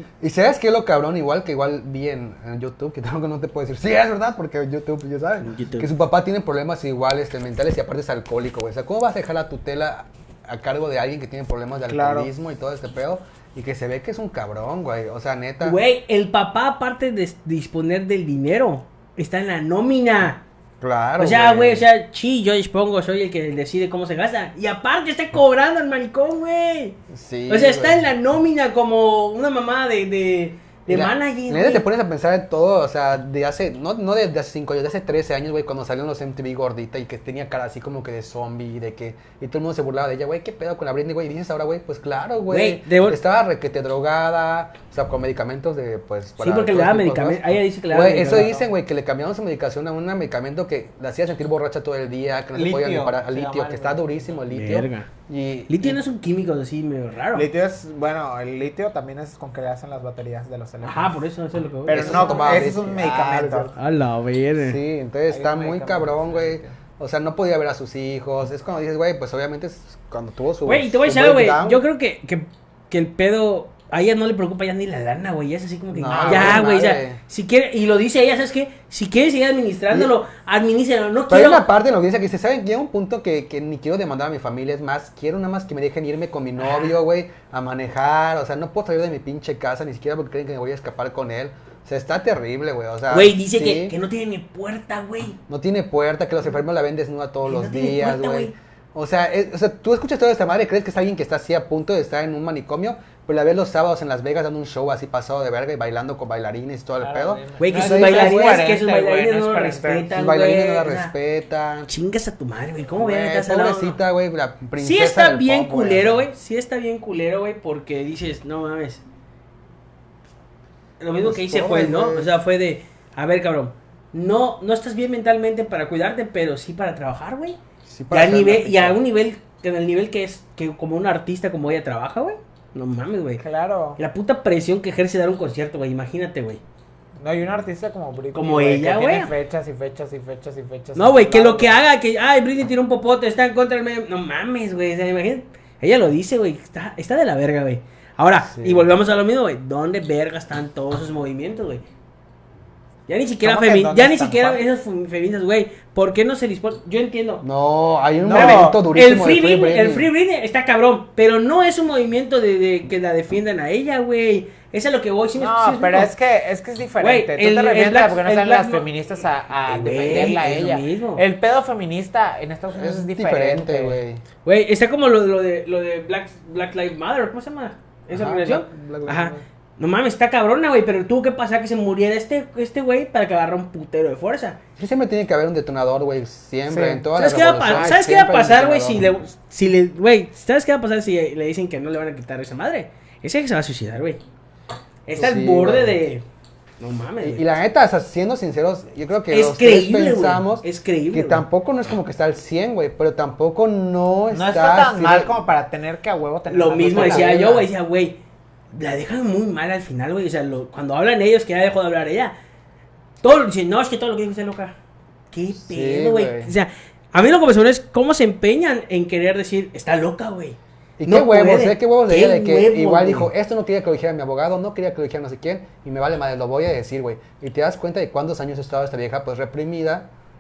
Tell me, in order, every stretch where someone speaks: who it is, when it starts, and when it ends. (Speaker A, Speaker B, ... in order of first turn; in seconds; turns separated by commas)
Speaker A: 0.2-15.8, Speaker B: 5.4-5.9, Speaker C: 11.9-12.3, Speaker B: 15.6-20.4, Speaker A: 20.8-21.9, Speaker B: 21.2-27.0, Speaker A: 27.1-28.1, Speaker B: 27.5-31.9, Speaker A: 30.9-56.0, Speaker B: 42.5-43.2, Speaker B: 46.4-48.6, Speaker C: 52.5-54.4, Speaker B: 54.5-55.1, Speaker B: 55.7-57.5, Speaker C: 57.3-61.2, Speaker B: 60.8-62.7, Speaker C: 61.9-63.7, Speaker A: 61.9-63.7, Speaker B: 63.8-64.8, Speaker A: 64.6-71.8, Speaker C: 65.3-66.8, Speaker B: 70.7-81.7, Speaker A: 75.9-77.2, Speaker C: 76.1-76.7, Speaker A: 81.3-94.0, Speaker B: 93.1-95.4, Speaker A: 95.5-108.6, Speaker B: 97.5-98.5, Speaker C: 107.0-110.1, Speaker B: 107.6-111.1, Speaker A: 110.1-111.9, Speaker B: 111.9-114.0, Speaker A: 113.0-116.3, Speaker B: 114.8-119.0, Speaker B: 121.0-127.6, Speaker A: 121.2-122.3, Speaker A: 127.8-129.0, Speaker B: 128.1-133.4, Speaker C: 133.4-134.0, Speaker B: 134.0-136.6, Speaker C: 137.2-141.8, Speaker B: 138.3-139.3, Speaker B: 141.0-151.8, Speaker A: 148.4-148.9, Speaker B: 153.1-157.4, Speaker C: 153.4-154.6, Speaker A: 157.4-160.1, Speaker C: 158.2-158.8, Speaker B: 158.3-166.1, Speaker C: 165.4-174.0, Speaker B: 167.0-168.8, Speaker B: 169.7-171.2, Speaker A: 172.7-174.2, Speaker B: 174.4-184.6, Speaker A: 178.1-179.4, Speaker A: 184.8-189.1, Speaker C: 186.7-187.0, Speaker B: 187.2-194.2, Speaker C: 187.7-188.0, Speaker B: 195.1-196.2, Speaker A: 195.2-196.0, Speaker B: 196.8-197.4, Speaker A: 197.2-205.3, Speaker B: 199.3-201.4, Speaker C: 204.3-207.7, Speaker B: 206.5-208.2, Speaker A: 206.9-207.5, Speaker B: 208.7-212.3, Speaker B: 213.2-214.8, Speaker B: 215.3-223.3, Speaker A: 215.6-216.5, Speaker A: 221.0-230.1